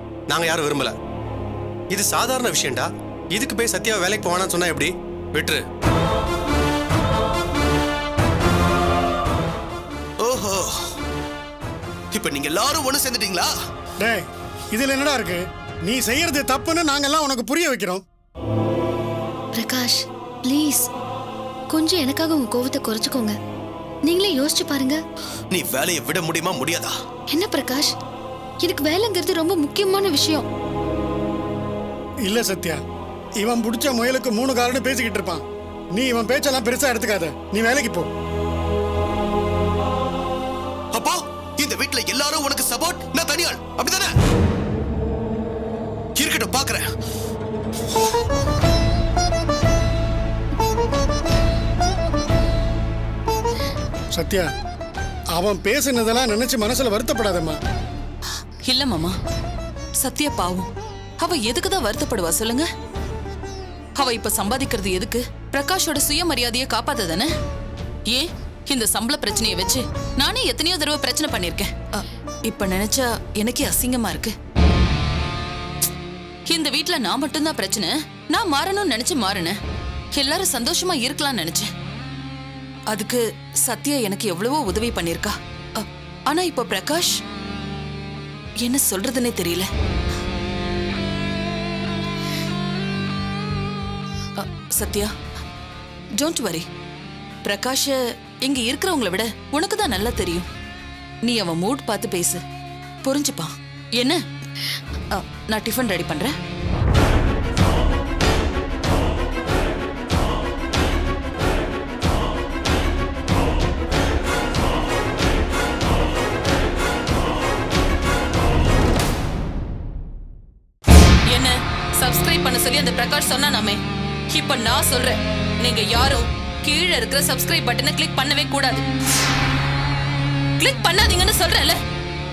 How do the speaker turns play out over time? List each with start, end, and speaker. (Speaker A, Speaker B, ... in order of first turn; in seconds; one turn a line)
Speaker A: 0.3-0.9
Speaker A: 1.9-5.6
Speaker B: 10.2-10.7
Speaker B: 12.1-13.5
Speaker C: 14.0-18.0
Speaker D: 19.6-20.9
Speaker D: 21.7-23.4
Speaker D: 24.1-25.0
Speaker B: 25.5-26.9
Speaker D: 27.3-27.9
Speaker D: 28.6-30.4
Speaker C: 32.2-32.8
Speaker C: 33.4-35.4
Speaker C: 35.9-38.1
Speaker B: 40.9-44.1
Speaker B: 46.2-46.8
Speaker C: 54.2-54.5
Speaker C: 55.4-57.6
Speaker E: 58.6-59.1
Speaker E: 60.0-60.7
Speaker E: 61.2-62.7
Speaker E: 64.0-67.3
Speaker E: 68.1-74.3
Speaker E: 76.5-79.6
Speaker E: 80.2-81.7
Speaker E: 82.9-87.2
Speaker E: 88.6-89.7
Speaker E: 94.4-95.1
Speaker E: 96.2-96.7
Speaker E: 97.4-100.5
Speaker E: 101.2-102.4
Speaker E: 103.0-104.2
Speaker E: 105.1-106.3
Speaker E: 121.3-123.8
Speaker E: 124.3-128.8
Speaker E: 130.6-131.8